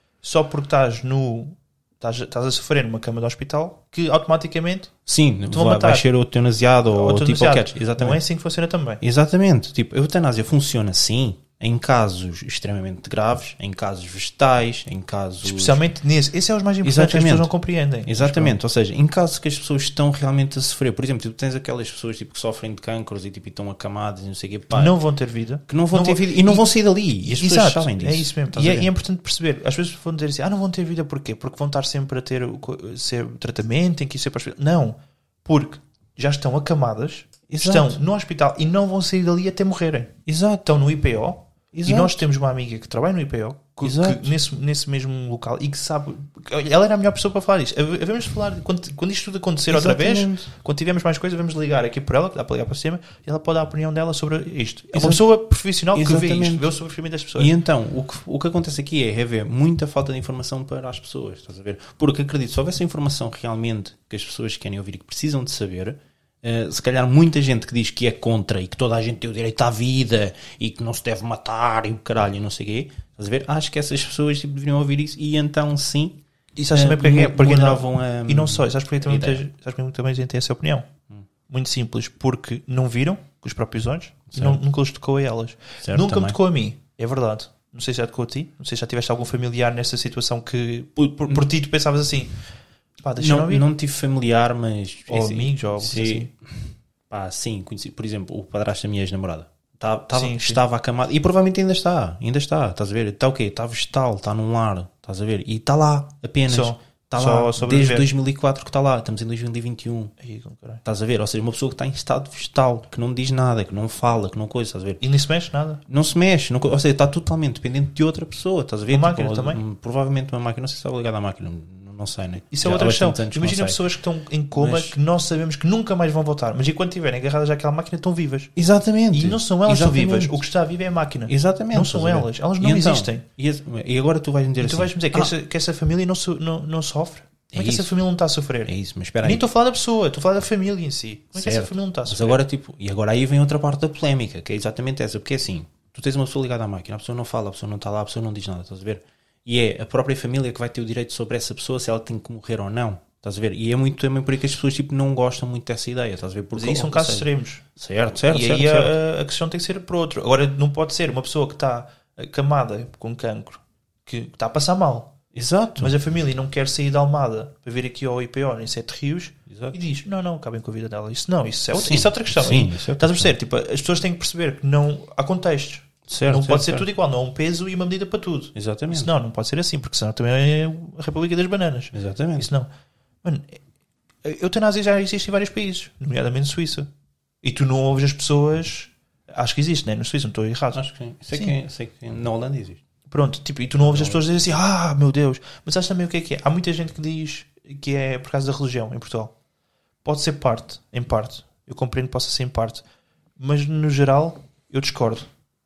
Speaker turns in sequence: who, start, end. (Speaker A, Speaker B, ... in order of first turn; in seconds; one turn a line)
Speaker A: 0.2-4.9
Speaker B: 5.0-8.2
Speaker A: 5.5-6.0
Speaker A: 6.9-9.0
Speaker B: 9.0-15.8
Speaker A: 15.4-18.5
Speaker B: 16.8-17.5
Speaker B: 18.0-25.0
Speaker A: 24.7-57.5
Speaker B: 25.7-28.9
Speaker B: 37.5-38.0
Speaker B: 40.2-40.7
Speaker B: 41.7-42.2
Speaker B: 43.8-44.3
Speaker B: 49.7-50.5
Speaker B: 54.9-55.2
Speaker B: 55.9-56.7
Speaker B: 57.4-76.2
Speaker A: 76.5-80.9
Speaker B: 76.7-79.5
Speaker A: 81.5-92.3
Speaker B: 84.3-84.6
Speaker B: 85.8-86.4
Speaker A: 93.0-93.7
Speaker B: 93.2-110.1
Speaker A: 95.1-96.3
Speaker A: 100.1-100.6
Speaker A: 106.5-108.1
Speaker A: 110.2-110.8
Speaker B: 110.8-115.0
Speaker A: 115.0-115.8
Speaker B: 115.9-123.8
Speaker A: 118.9-119.6
Speaker A: 122.5-128.5
Speaker B: 124.5-125.0
Speaker B: 128.6-130.4
Speaker A: 129.1-133.2
Speaker B: 131.3-135.3
Speaker A: 134.6-142.4
Speaker B: 137.5-137.9
Speaker B: 138.7-139.5
Speaker B: 141.4-158.9
Speaker A: 156.5-157.6
Speaker A: 158.2-165.2
Speaker B: 165.3-165.9
Speaker A: 165.8-182.7
Speaker B: 169.5-169.8
Speaker B: 171.7-173.3
Speaker B: 176.1-176.9
Speaker B: 178.5-179.1
Speaker B: 181.9-182.5
Speaker A: 183.2-183.6
Speaker A: 184.2-186.9
Speaker A: 187.4-191.6
Speaker B: 190.7-192.8
Speaker A: 193.1-199.3
Speaker B: 193.8-194.2
Speaker A: 200.0-202.8
Speaker A: 203.4-205.3